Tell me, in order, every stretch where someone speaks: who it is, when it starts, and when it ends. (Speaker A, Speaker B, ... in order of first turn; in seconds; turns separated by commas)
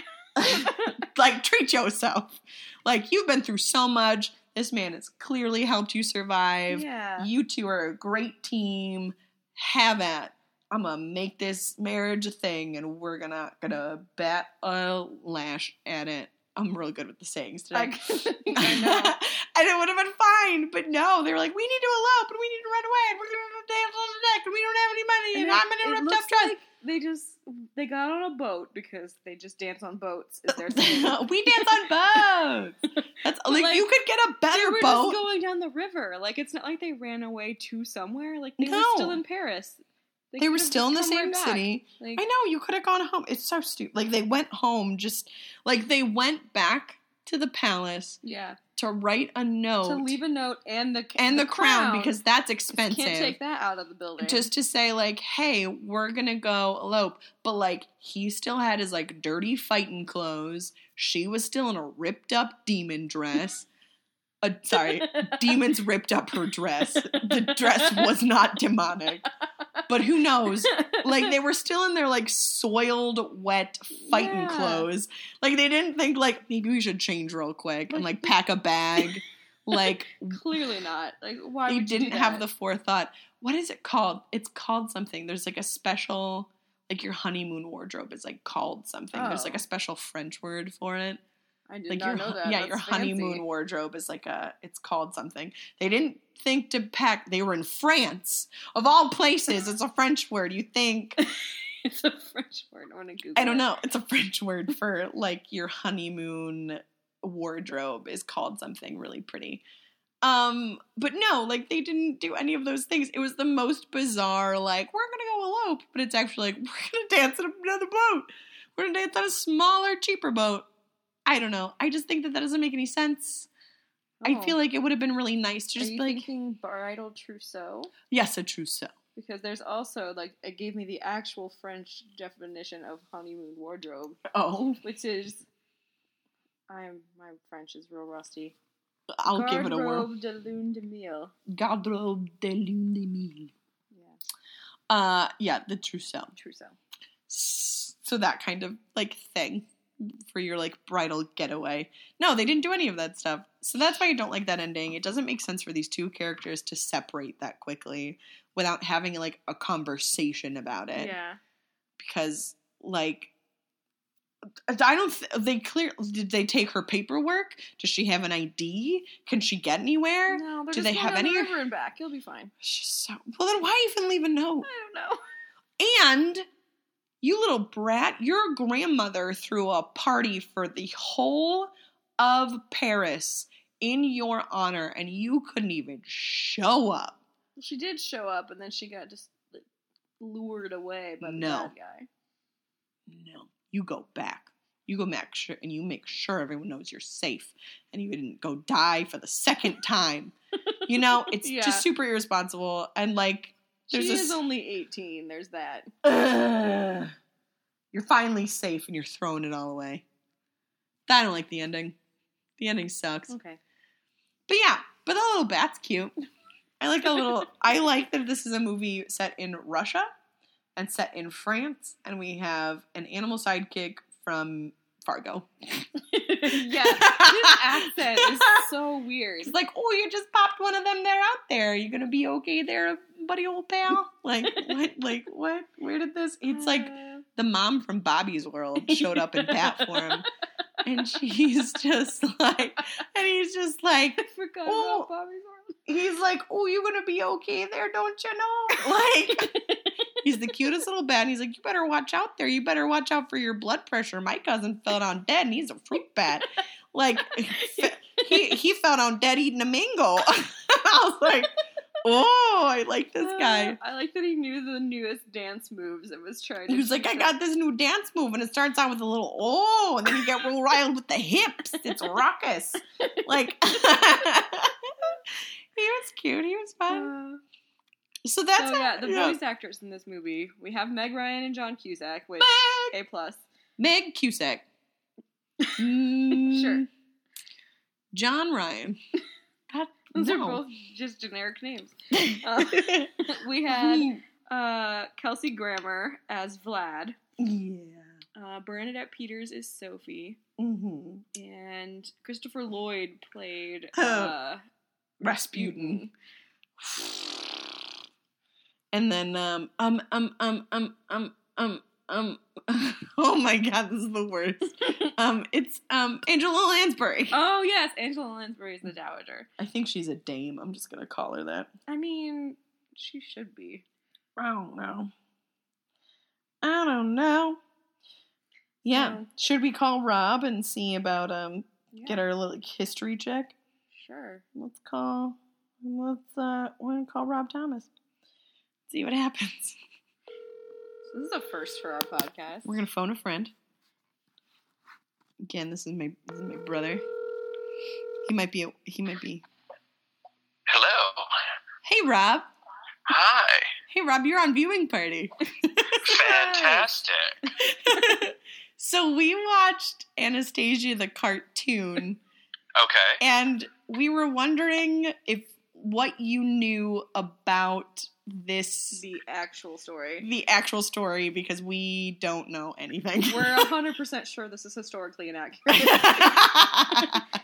Speaker A: 0.3-26.6, Speaker B: 0.4-1.0, Speaker B: 6.7-7.3, Speaker B: 17.7-19.2, Speaker B: 25.3-32.2, Speaker A: 30.5-35.2, Speaker B: 33.5-33.9, Speaker B: 34.5-42.2, Speaker A: 38.6-39.2, Speaker A: 40.4-48.2, Speaker B: 48.2-48.6, Speaker A: 48.8-50.1, Speaker B: 49.8-52.1, Speaker A: 51.2-53.4, Speaker B: 52.7-54.5, Speaker A: 54.2-63.7, Speaker A: 64.4-69.2, Speaker B: 64.7-65.5, Speaker B: 66.9-68.1, Speaker A: 69.9-80.4, Speaker B: 70.6-71.3, Speaker B: 74.0-74.9, Speaker B: 77.9-78.3, Speaker B: 79.8-82.4, Speaker A: 81.7-91.2, Speaker B: 89.1-89.6, Speaker B: 91.7-93.4, Speaker A: 91.9-101.2, Speaker B: 101.2-103.7, Speaker A: 103.3-109.6, Speaker A: 110.2-120.7, Speaker A: 121.2-123.5, Speaker B: 124.2-124.6, Speaker A: 124.2-126.3, Speaker B: 125.8-127.9, Speaker A: 128.1-128.9, Speaker B: 129.2-134.2, Speaker A: 134.3-134.8, Speaker B: 134.8-135.5, Speaker B: 136.7-138.6, Speaker A: 139.2-140.1, Speaker B: 139.3-141.3, Speaker A: 141.5-143.5, Speaker A: 144.9-146.3, Speaker B: 146.3-146.8, Speaker A: 147.3-161.1, Speaker B: 160.9-161.4, Speaker A: 162.0-163.3, Speaker A: 164.7-171.6, Speaker B: 170.3-172.5, Speaker A: 172.6-174.7, Speaker B: 174.6-175.2, Speaker A: 175.8-176.4, Speaker A: 177.2-187.2, Speaker B: 187.6-189.6, Speaker B: 190.2-192.1, Speaker A: 191.2-191.7, Speaker A: 193.1-200.3, Speaker B: 200.7-201.8, Speaker A: 200.9-204.4, Speaker B: 203.9-205.9, Speaker A: 206.0-207.1, Speaker A: 207.9-210.0, Speaker A: 211.1-212.0, Speaker A: 212.6-213.3, Speaker B: 213.3-213.6, Speaker A: 214.5-216.1, Speaker A: 216.8-220.1, Speaker A: 220.8-228.6, Speaker B: 226.1-229.5, Speaker A: 229.4-240.3, Speaker B: 236.5-237.2, Speaker B: 238.8-240.3, Speaker A: 240.8-245.1, Speaker B: 244.2-245.8, Speaker A: 245.9-249.6, Speaker B: 249.4-249.9, Speaker A: 250.2-261.5, Speaker B: 257.5-258.6, Speaker A: 262.0-263.8, Speaker B: 263.2-267.4, Speaker A: 266.7-277.1, Speaker B: 273.0-273.5, Speaker B: 276.9-277.4, Speaker A: 278.2-279.4, Speaker B: 278.6-283.4, Speaker A: 282.4-282.9, Speaker A: 283.8-284.6, Speaker A: 285.8-286.9, Speaker B: 286.4-286.9, Speaker A: 288.1-289.0, Speaker A: 289.7-290.6, Speaker B: 290.1-297.2, Speaker A: 292.1-293.1, Speaker A: 293.6-294.2, Speaker A: 297.4-298.2, Speaker B: 298.4-300.4, Speaker A: 300.6-301.2, Speaker B: 301.3-304.6, Speaker A: 303.9-304.3, Speaker A: 305.2-306.0, Speaker B: 305.3-306.1, Speaker A: 306.8-307.8, Speaker A: 308.9-317.4, Speaker B: 317.3-319.5, Speaker A: 319.6-321.7, Speaker B: 321.9-323.8, Speaker A: 324.4-325.1, Speaker A: 326.6-327.6, Speaker A: 328.8-333.5, Speaker B: 328.9-329.2, Speaker B: 331.9-332.2, Speaker B: 333.9-334.4, Speaker A: 334.5-337.9, Speaker A: 338.9-339.8, Speaker B: 341.1-342.8, Speaker A: 342.6-343.5, Speaker A: 345.4-347.0, Speaker A: 348.2-349.4, Speaker C: 350.7-351.3, Speaker A: 351.8-352.5, Speaker C: 353.1-353.7, Speaker A: 353.9-356.9, Speaker C: 356.0-357.4, Speaker A: 357.6-362.2, Speaker C: 362.7-363.2, Speaker A: 363.2-369.0, Speaker B: 368.9-370.3, Speaker A: 370.2-373.7, Speaker B: 373.3-377.1, Speaker A: 375.7-377.2